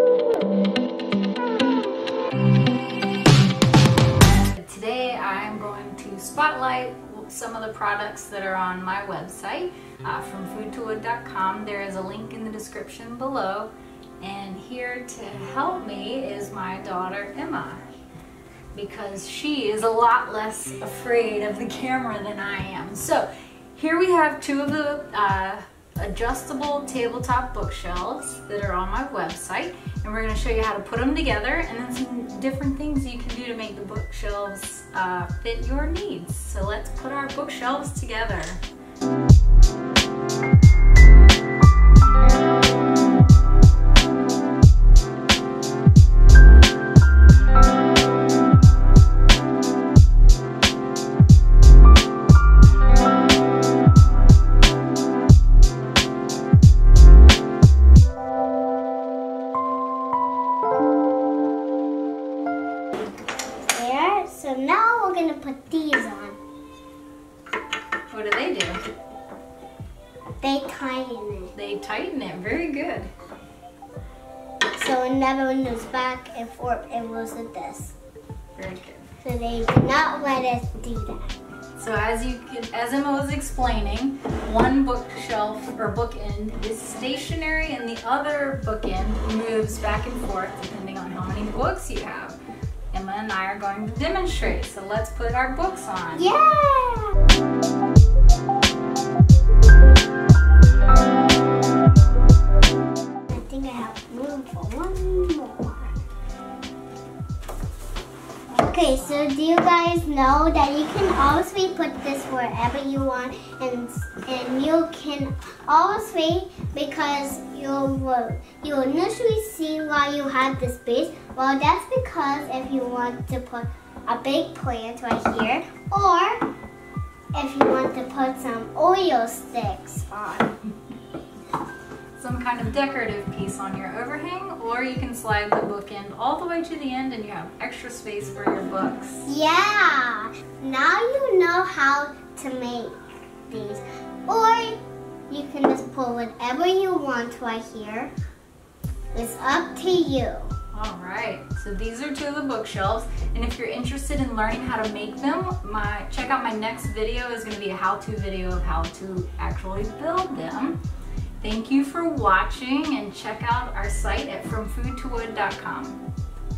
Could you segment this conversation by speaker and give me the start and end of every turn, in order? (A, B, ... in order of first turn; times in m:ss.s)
0:04.2-0:17.8 A
0:18.8-0:38.6 A
1:03.7-1:06.4 B
1:08.1-1:08.8 A
1:10.4-1:11.5 B
1:11.5-1:13.1 A
1:14.7-1:18.0 B
1:18.6-1:19.1 A
1:19.2-1:21.3 B
1:21.8-1:32.4 A
1:32.9-1:36.3 A
1:36.1-1:37.1 B
1:43.3-1:46.0 B
1:48.5-1:49.3 A
1:48.6-2:06.4 B
2:07.3-2:10.5 B
2:12.2-2:19.3 A
2:19.2-2:28.1 B
2:29.1-2:30.5 B
2:30.7-2:40.8 A
2:41.4-2:46.0 A